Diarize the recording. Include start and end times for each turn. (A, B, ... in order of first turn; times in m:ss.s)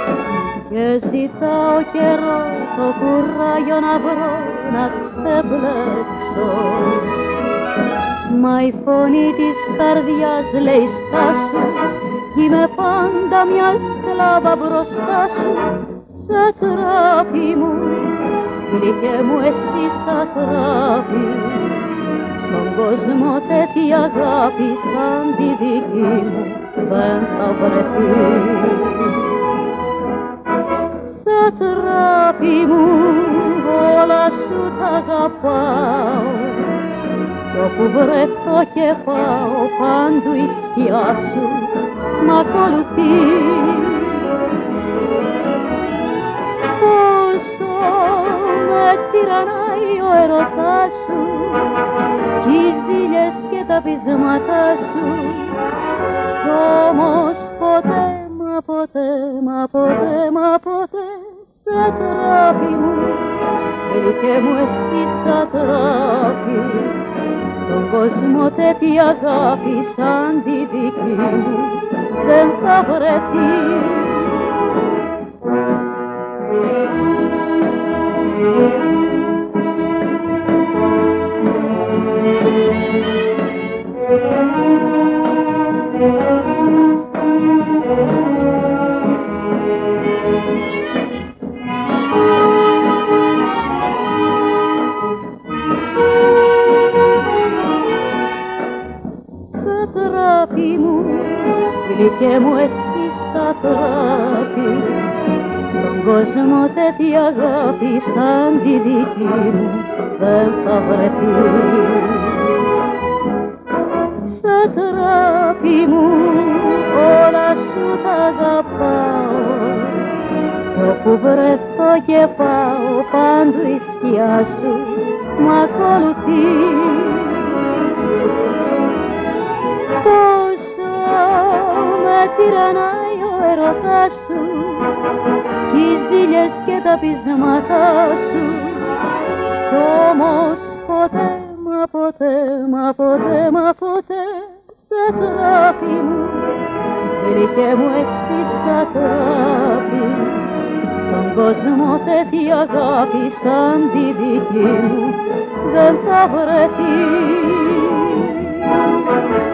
0:00.6-0:07.2 A
0:08.2-0:29.3 A
0:31.0-0:36.8 A
0:37.5-0:44.4 A
0:46.6-0:55.7 A
0:56.4-1:14.9 A
1:39.5-1:52.6 A
1:54.2-2:07.8 A
2:09.9-2:19.0 A
2:19.6-2:38.9 A